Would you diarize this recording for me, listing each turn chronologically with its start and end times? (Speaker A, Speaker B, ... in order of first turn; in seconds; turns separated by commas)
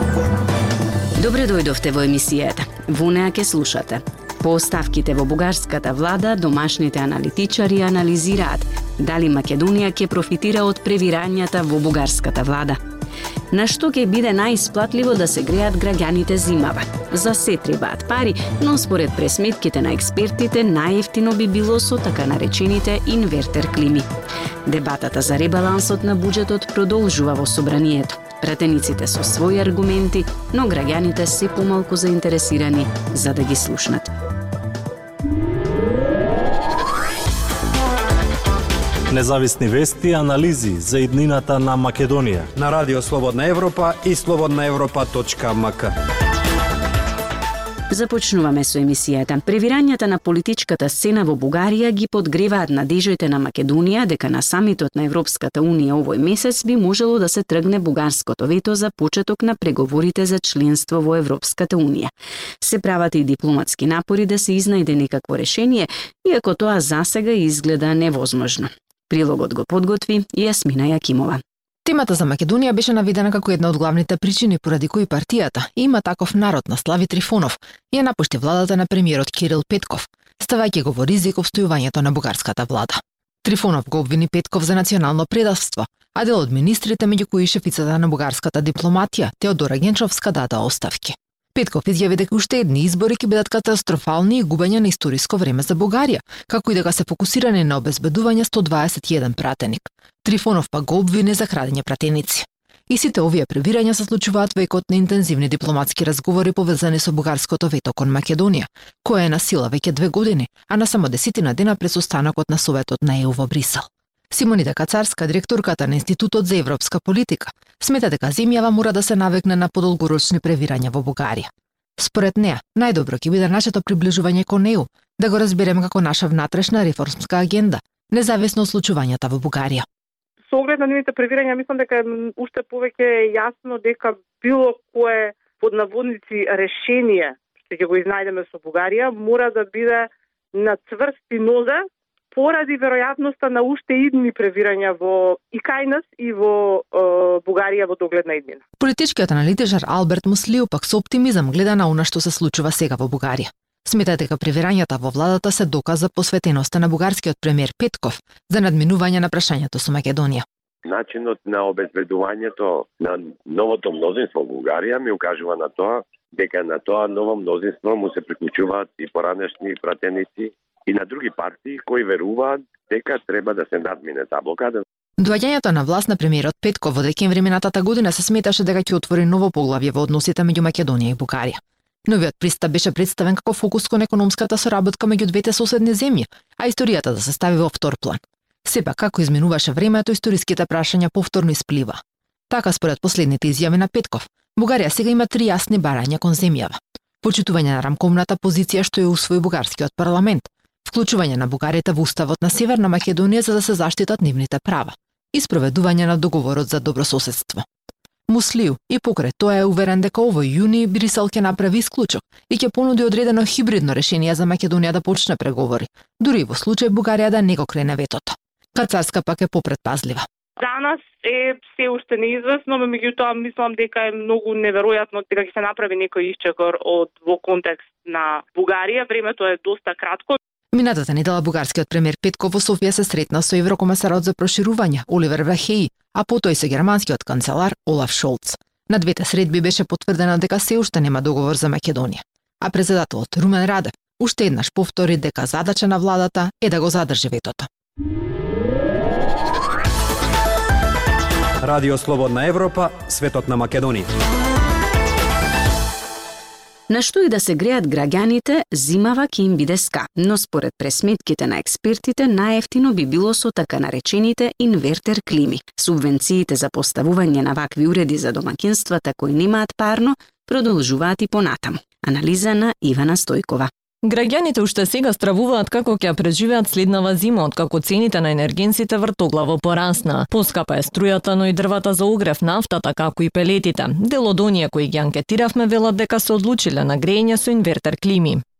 Speaker A: 1.2-12.8, Speaker A: 13.5-24.1, Speaker A: 24.7-34.1, Speaker B: 39.1-42.5, Speaker C: 42.5-45.9, Speaker A: 47.9-71.4, Speaker D: 71.8-129.8, Speaker E: 130.5-148.6, Speaker D: 148.8-160.4, Speaker F: 160.9-174.8, Speaker D: 175.2-207.7, Speaker D: 208.3-220.3, Speaker E: 220.6-230.4, Speaker D: 230.7-247.7, Speaker A: 256.9-273.7, Speaker G: 274.0-288.4